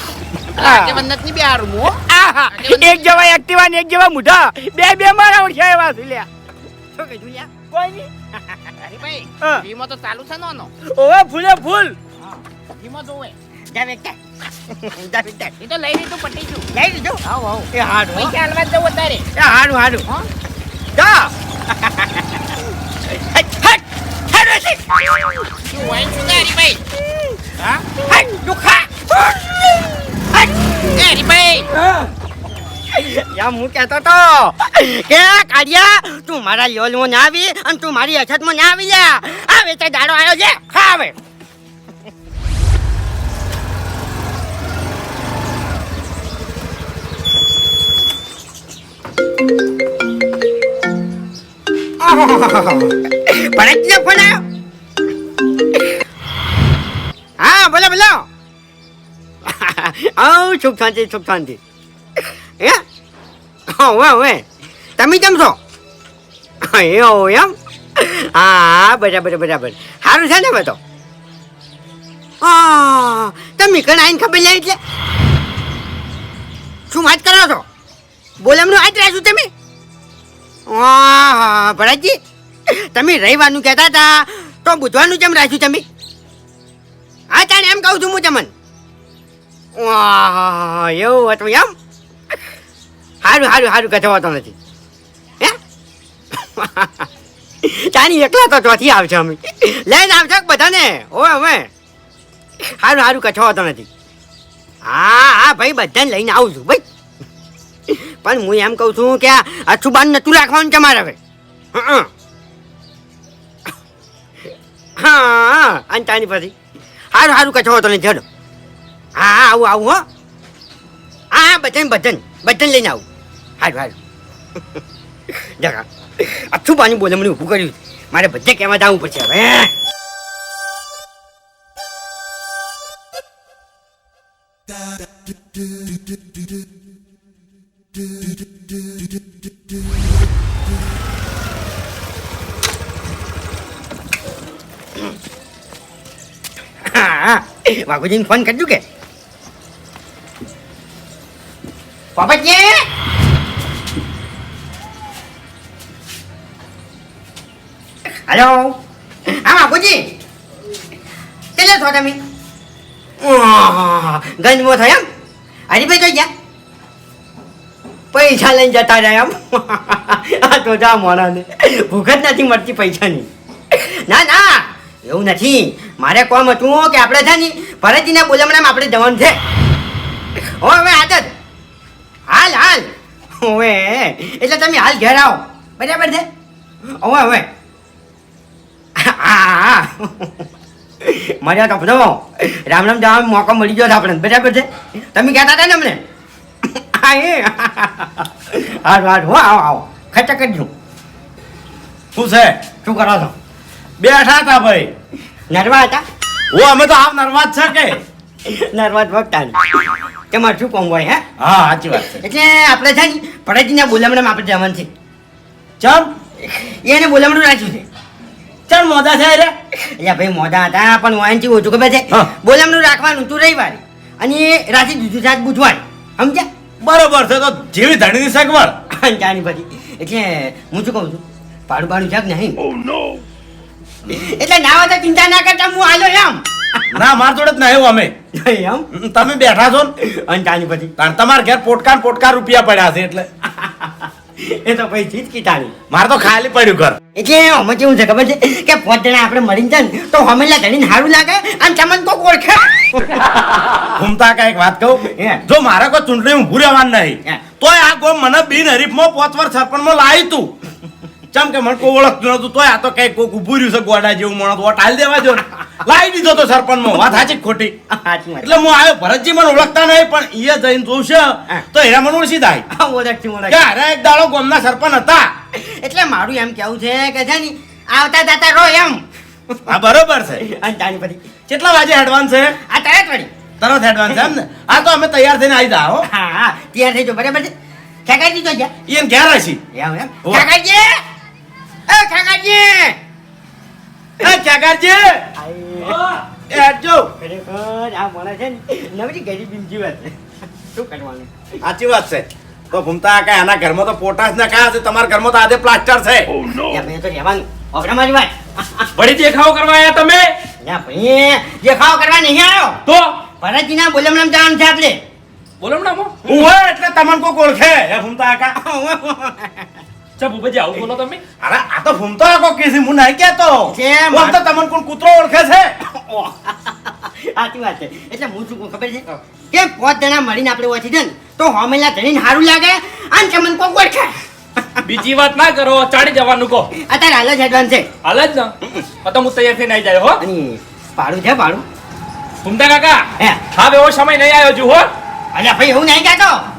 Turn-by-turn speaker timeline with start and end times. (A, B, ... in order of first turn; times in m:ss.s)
0:00.6-0:01.0 A
0:00.6-0:03.3 B
0:02.1-0:06.3 C
0:06.9-0:07.5 A
0:07.7-0:08.1 C
0:08.8-0:10.7 B
0:10.9-0:12.0 C
0:12.2-0:13.3 B
0:13.7-0:15.5 A
0:15.6-0:16.6 B
0:16.7-0:17.2 A
0:17.2-0:19.3 B
0:17.7-0:18.3 A
0:19.3-0:20.0 A
0:20.9-0:25.5 A
0:25.7-0:26.8 B
0:27.6-0:27.8 B
0:28.0-0:30.9 A
0:30.9-0:31.7 B
0:31.7-0:32.1 A
0:32.9-0:41.2 A
0:52.0-0:54.4 A
0:57.4-0:58.3 A
0:59.4-1:01.6 A
1:02.2-1:02.8 A
1:03.7-1:04.4 A
1:05.0-1:05.6 A
1:06.6-1:10.8 A
1:12.4-1:14.8 A
1:16.9-1:17.6 A
1:18.4-1:19.5 A
1:20.7-1:25.8 A
1:27.3-1:28.5 A
1:29.7-1:31.7 A
1:33.2-1:34.5 A
1:36.3-1:37.1 A
1:37.6-1:41.7 A
1:42.6-1:43.9 A
1:44.8-1:46.8 A
1:47.9-1:51.2 A
1:51.7-1:52.1 A
1:55.0-1:56.5 A
1:57.1-1:58.2 A
1:59.2-2:00.0 A
2:01.3-2:03.0 A
2:03.6-2:04.0 A
2:04.7-2:09.7 A
2:26.8-2:28.8 A
2:32.1-2:32.8 A
2:38.1-2:40.1 A
2:41.6-2:42.2 A
2:43.2-2:45.0 A
2:45.7-2:46.3 A
2:48.1-2:59.4 A
3:00.4-3:01.3 A
3:02.3-3:06.3 A
3:07.0-3:07.5 A
3:09.0-3:10.4 A
3:11.0-3:16.0 A
3:16.6-3:20.7 A
3:22.1-3:22.5 D
3:22.8-3:23.3 A
3:24.0-3:24.9 D
3:25.5-3:26.0 A
3:26.5-3:28.0 D
3:28.4-3:31.2 A
3:31.4-3:32.2 D
3:32.0-3:34.9 A
3:35.8-3:36.1 D
3:36.4-3:37.8 A
3:38.7-3:39.5 D
3:39.8-3:46.5 A
3:46.8-3:48.7 D
3:48.9-3:52.6 A
3:54.1-3:56.8 A
3:56.9-3:58.1 D
3:58.3-3:58.8 A
3:58.9-3:59.9 D
4:00.0-4:00.9 A
4:01.0-4:03.3 D
4:03.5-4:05.7 A
4:05.9-4:07.0 D
4:07.1-4:13.3 A
4:13.9-4:20.5 D
4:15.0-4:15.4 A
4:21.3-4:27.7 D
4:26.9-4:27.3 A
4:27.9-4:28.6 A
4:28.4-4:32.6 D
4:32.7-4:33.6 A
4:33.5-4:35.3 D
4:35.5-4:39.8 A
4:39.7-4:40.4 D
4:40.4-4:41.2 A
4:41.5-4:42.6 D
4:42.6-4:43.3 A
4:43.6-4:46.0 D
4:46.1-4:47.5 A
4:48.0-4:48.7 A
4:48.8-4:49.6 D
4:49.7-4:51.0 A
4:51.9-4:53.0 A
4:54.2-4:55.2 D
4:55.4-4:56.0 A
4:55.8-4:56.2 E
4:56.5-4:57.1 D
4:57.2-5:00.2 A
5:00.7-5:01.4 A
5:01.6-5:06.3 D
5:06.7-5:08.9 A
5:09.0-5:10.3 E
5:10.6-5:12.8 A
5:12.8-5:13.1 E
5:13.4-5:15.0 A
5:15.6-5:16.3 E
5:16.2-5:18.6 D
5:18.6-5:19.8 A
5:20.2-5:21.2 E
5:21.4-5:25.7 D
5:23.7-5:24.4 A
5:25.8-5:34.8 A
5:34.8-5:36.7 E
5:36.7-5:37.9 A
5:38.0-5:40.2 E
5:40.2-5:41.6 A
5:42.4-5:44.9 E
5:45.3-5:46.4 A